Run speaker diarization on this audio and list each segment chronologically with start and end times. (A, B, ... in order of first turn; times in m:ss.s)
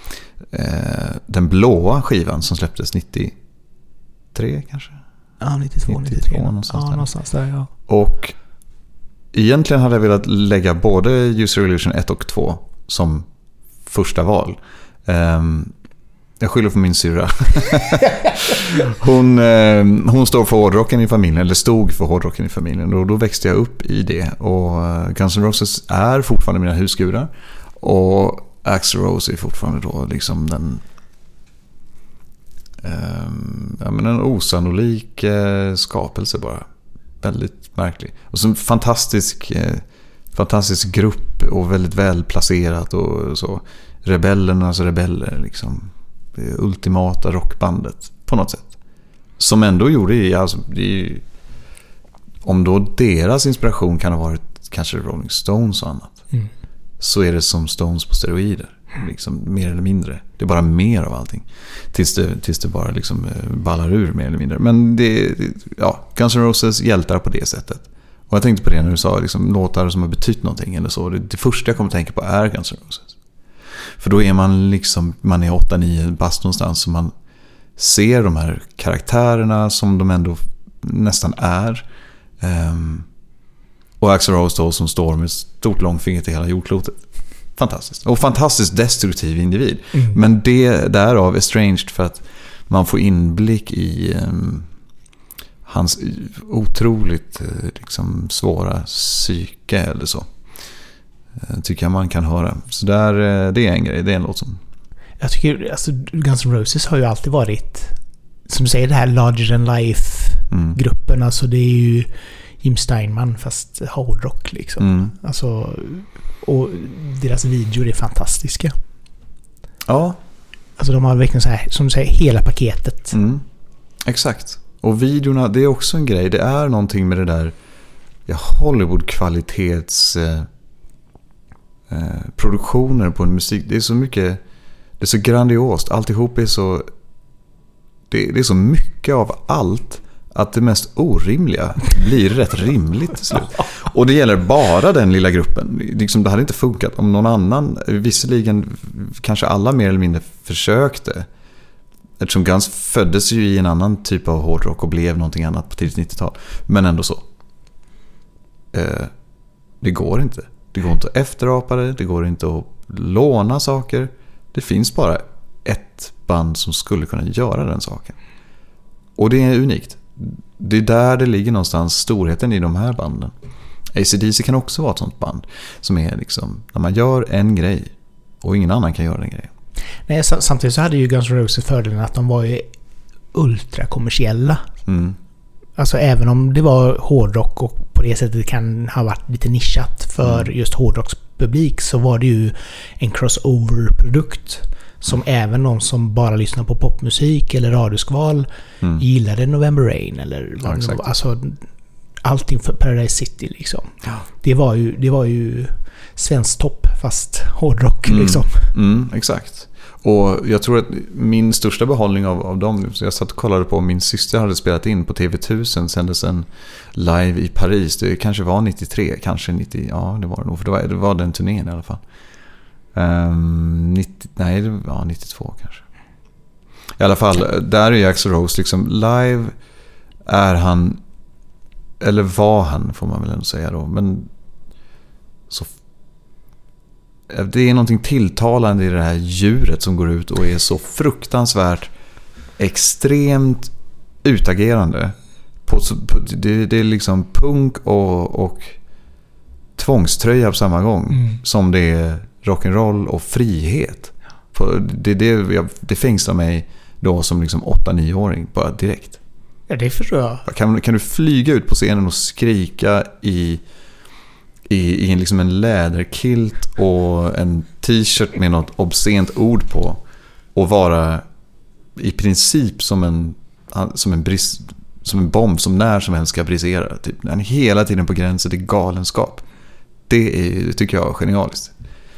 0:00.5-0:03.4 A
0:04.3-0:05.0 A
0:05.4-0:07.7 B
0:05.9-0:07.0 A
0:07.9-0:08.4 A
0:09.3-0:13.3 A
0:13.9-0:15.7 A
0:16.4-0:30.8 A
0:32.8-0:36.7 A
0:37.2-0:48.7 A
0:49.4-0:51.2 A
0:52.4-0:56.2 A
0:57.0-1:13.1 A
1:14.0-1:17.1 A
1:17.8-1:21.8 A
1:22.4-1:23.1 A
1:24.0-1:27.0 A
1:27.6-1:34.7 A
1:29.9-1:30.2 B
1:35.7-1:40.3 A
1:41.4-1:44.6 A
1:45.2-1:48.0 B
1:48.5-1:52.1 B
1:50.5-1:50.8 A
1:52.6-1:58.7 B
1:54.8-1:55.1 A
1:59.9-2:00.2 A
2:00.8-2:03.2 B
2:03.1-2:03.4 A
2:04.0-2:07.5 A
2:08.3-2:10.5 A
2:11.9-2:14.4 A
2:15.0-2:16.8 A
2:18.1-2:31.3 A
2:32.2-2:37.2 A
2:38.7-2:39.1 A
2:39.8-2:48.2 A
2:49.2-2:53.3 A
2:53.9-2:59.5 A
3:00.1-3:02.7 B
3:03.3-3:04.7 B
3:04.9-3:05.2 A
3:05.8-3:21.6 B
3:20.6-3:21.1 A
3:22.2-3:28.7 B
3:28.1-3:42.0 A
3:42.9-3:45.8 A
3:47.0-3:49.5 A
3:50.3-3:51.0 A
3:52.0-3:54.3 A
3:57.3-4:01.9 A
4:02.6-4:03.7 A
4:04.2-4:08.8 A
4:09.8-4:19.2 A
4:11.1-4:11.4 B
4:19.7-4:20.5 B
4:20.5-4:23.6 A
4:24.7-4:30.0 A
4:30.6-4:31.2 A
4:32.0-4:39.4 A
4:40.1-4:41.7 A